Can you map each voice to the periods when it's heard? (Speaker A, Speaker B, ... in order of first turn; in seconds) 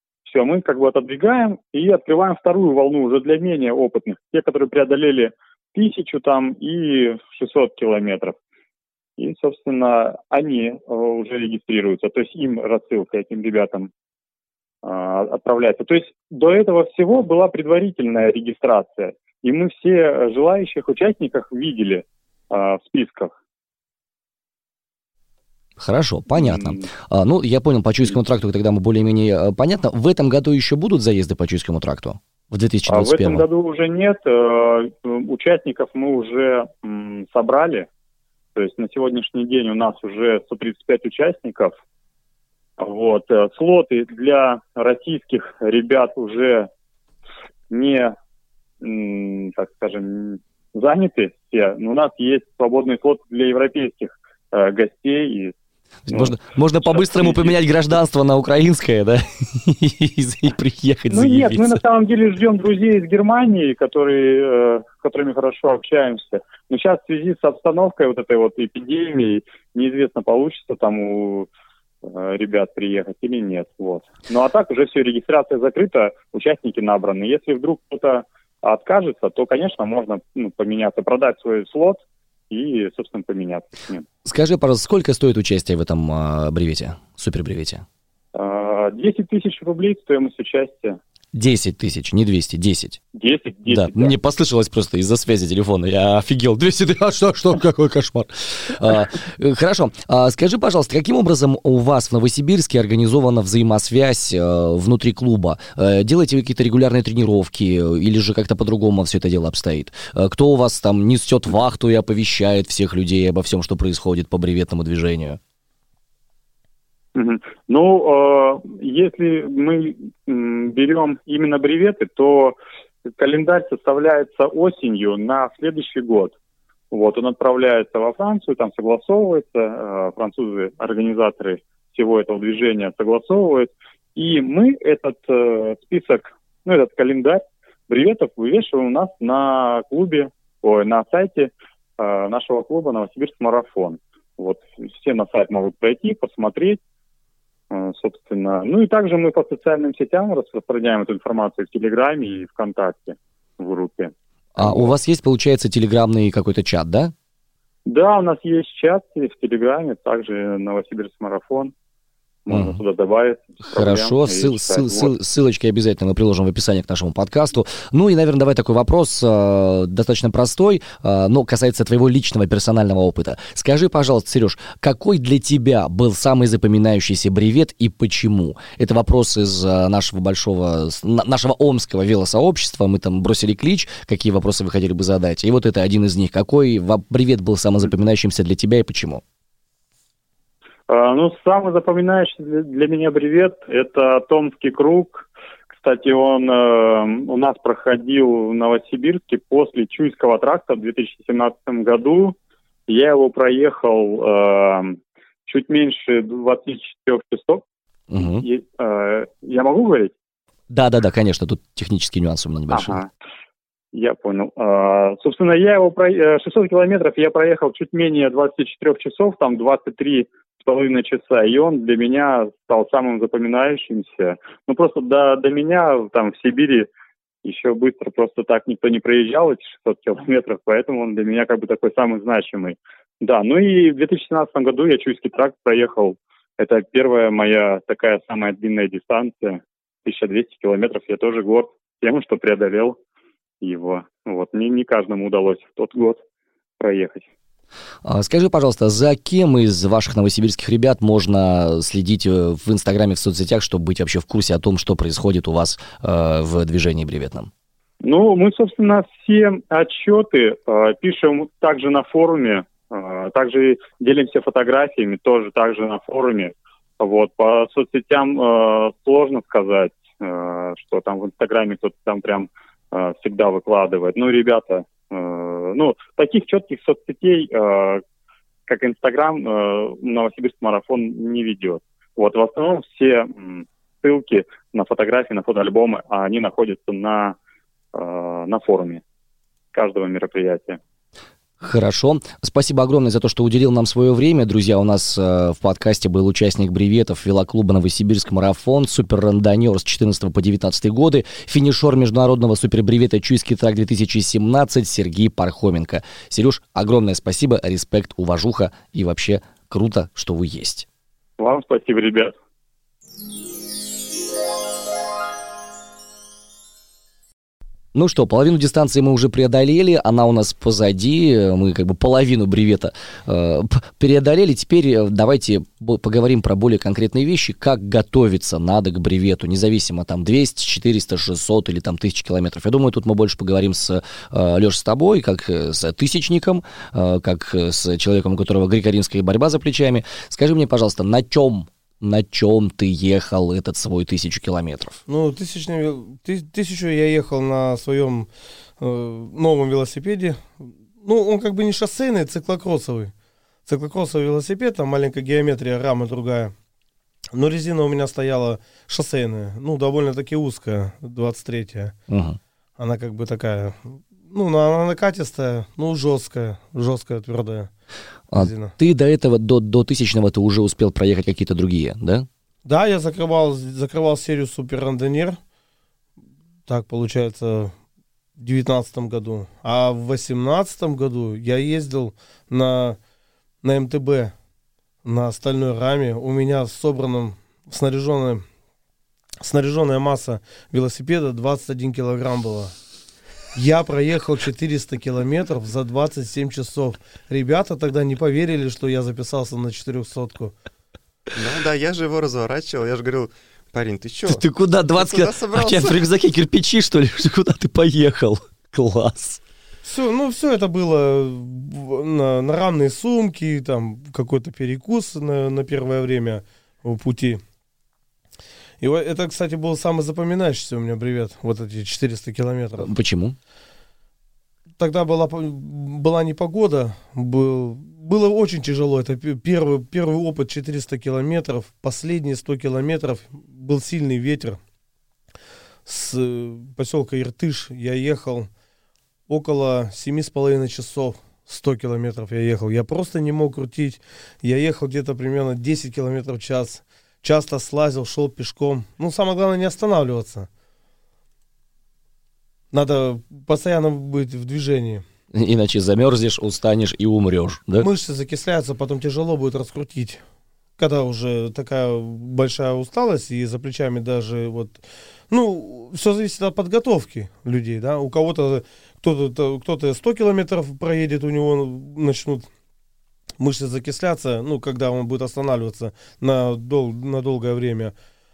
Speaker A: 0.2-8.3, 9.2-13.9, 14.8-23.3, 26.3-26.8, 32.9-37.9, 38.5-41.7, 42.8-46.7, 47.7-48.1, 48.8-55.5, 56.1-57.5, 61.1-71.5, 72.0-84.0, 88.3-91.0, 93.1-94.1, 117.1-126.3, 126.9-146.8, 147.7-154.9, 157.8-161.7, 162.4-165.1, 190.9-202.3, 202.9-207.6, 208.2-210.1, 212.7-213.1, 213.9-226.9, 227.4-243.0, 243.6-246.2, 246.8-247.3, 258.0-278.0, 278.7-287.4, 287.9-289.0, 289.7-290.8, 311.4-312.3
Speaker B: 25.8-33.4, 56.1-61.8, 84.2-87.8, 91.3-93.0, 93.7-115.4, 154.6-157.1, 162.5-162.8, 163.7-189.2, 208.1-208.4, 210.7-213.0, 248.0-257.5, 291.6-310.9, 317.9-345.0, 362.1-362.4, 368.3-372.3, 404.3-409.4, 422.8-423.4, 455.3-457.9
Speaker C: 345.1-353.1, 353.7-356.5, 357.3-361.9, 362.8-367.7, 368.3-368.7, 372.6-375.4, 376.7-377.7, 378.4-383.0, 383.6-384.3, 385.0-388.4, 389.4-392.7, 393.5-400.5, 409.8-417.4, 418.8-422.9, 424.8-434.6, 435.9-438.5, 439.3-450.5, 452.7-455.0, 457.8-460.2, 460.8-472.5, 473.4-477.9
Speaker D: 401.3-404.4, 405.0-406.0